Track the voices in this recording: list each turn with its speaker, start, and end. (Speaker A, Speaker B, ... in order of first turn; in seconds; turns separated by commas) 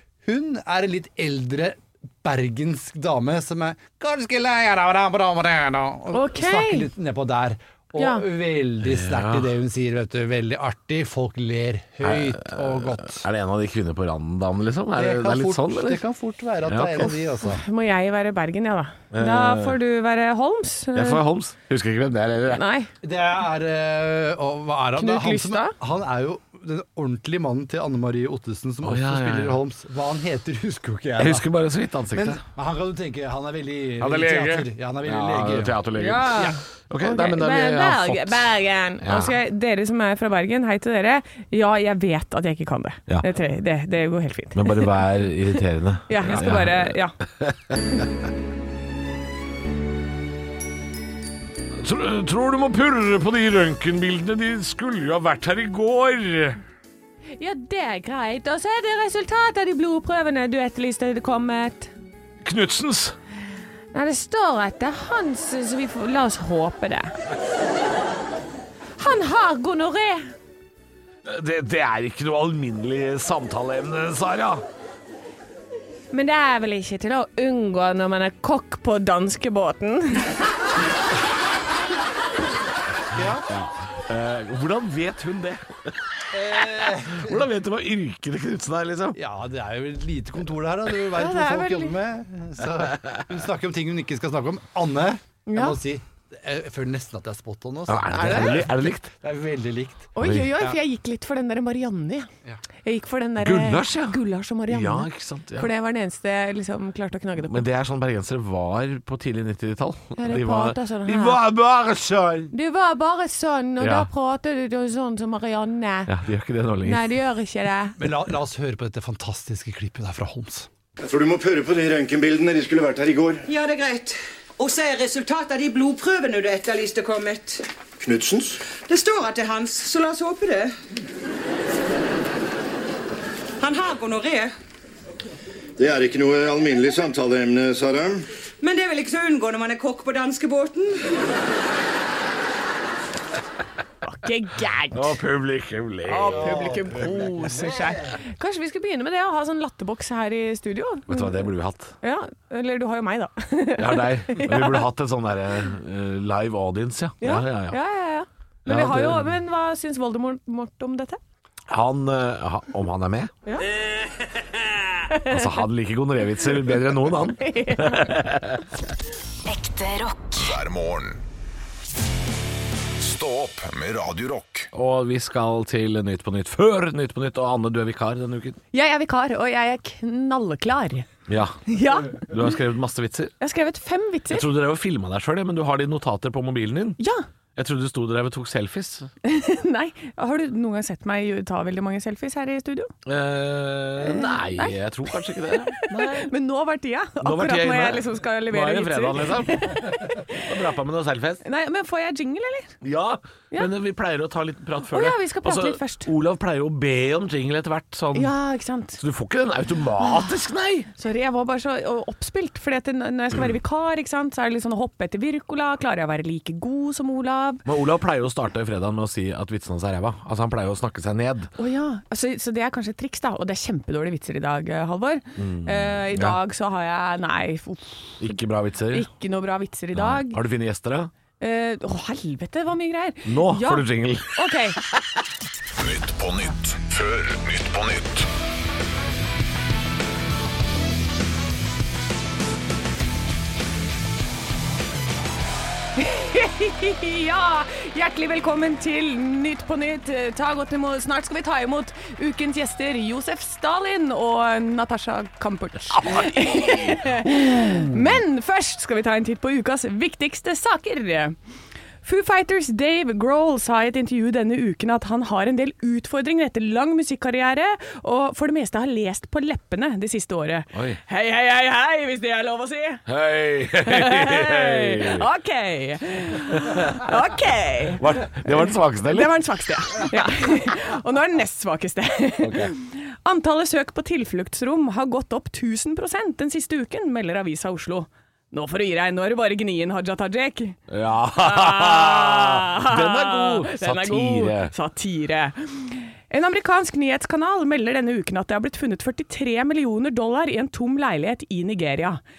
Speaker A: 0.2-13.2, Speaker B: 6.1-6.9, Speaker B: 8.0-8.2, Speaker C: 8.8-9.5, Speaker C: 12.0-16.0, Speaker A: 14.9-17.6, Speaker C: 16.6-17.1, Speaker B: 17.4-21.2, Speaker C: 19.1-19.8, Speaker C: 20.9-22.6, Speaker B: 22.5-22.9, Speaker A: 23.0-31.4, Speaker B: 25.0-25.7, Speaker C: 28.8-29.6, Speaker C: 31.2-32.4, Speaker A: 32.1-36.5, Speaker C: 34.0-38.4, Speaker B: 35.9-44.9, Speaker C: 39.0-39.3, Speaker C: 44.5-47.8, Speaker B: 46.1-47.1, Speaker C: 51.8-56.6, Speaker B: 57.4-61.9, Speaker C: 62.4-63.1, Speaker B: 63.9-67.1, Speaker B: 69.0-70.3, Speaker C: 71.2-74.6, Speaker B: 76.1-80.3, Speaker A: 83.1-83.4, Speaker C: 83.5-86.0, Speaker A: 86.3-87.4, Speaker C: 87.2-89.2, Speaker A: 89.1-100.8, Speaker B: 91.1-92.0, Speaker B: 95.5-95.8, Speaker C: 97.9-99.1, Speaker B: 100.1-102.3, Speaker C: 100.2-100.5, Speaker B: 102.8-107.6, Speaker C: 103.4-105.7, Speaker C: 107.4-112.5, Speaker B: 110.2-111.4, Speaker B: 112.5-116.1, Speaker C: 113.8-114.1, Speaker C: 116.1-117.0, Speaker B: 116.8-118.0, Speaker A: 118.0-120.7, Speaker D: 121.0-123.4, Speaker E: 123.5-127.7, Speaker D: 128.0-128.7, Speaker E: 128.8-130.7, Speaker E: 133.6-134.5, Speaker D: 135.8-138.2, Speaker E: 138.6-141.2, Speaker B: 144.0-145.2, Speaker C: 144.9-146.7, Speaker B: 146.0-154.9, Speaker C: 151.1-151.9, Speaker C: 153.8-157.8, Speaker B: 157.2-161.2, Speaker C: 158.7-159.3, Speaker C: 161.7-163.3, Speaker B: 165.1-165.6, Speaker C: 165.3-168.7, Speaker B: 167.1-168.1, Speaker F: 169.5-171.2, Speaker F: 173.0-174.7, Speaker C: 174.7-178.6, Speaker B: 178.7-181.1, Speaker C: 181.3-183.3, Speaker B: 181.7-182.3, Speaker B: 183.4-184.4, Speaker C: 184.3-187.0, Speaker B: 187.0-187.2, Speaker C: 187.6-189.1, Speaker B: 189.2-192.9, Speaker C: 193.0-196.3, Speaker B: 194.0-200.4, Speaker C: 197.2-201.4, Speaker B: 201.4-202.7, Speaker C: 202.8-208.3, Speaker B: 204.9-206.1, Speaker B: 208.1-209.0, Speaker C: 209.0-210.9, Speaker B: 211.0-217.6, Speaker C: 217.6-221.5, Speaker B: 221.6-228.3, Speaker C: 225.4-226.4, Speaker C: 228.2-229.1, Speaker B: 228.9-230.4, Speaker C: 229.9-231.1, Speaker B: 231.4-234.8, Speaker C: 233.2-234.8, Speaker F: 235.7-238.3, Speaker B: 246.0-261.4, Speaker C: 256.0-257.0, Speaker B: 262.0-273.0, Speaker C: 270.7-271.0, Speaker C: 273.1-275.2, Speaker B: 273.8-290.8, Speaker C: 276.5-277.0, Speaker C: 278.0-280.1, Speaker C: 282.4-282.7, Speaker C: 290.9-294.7, Speaker B: 291.4-302.2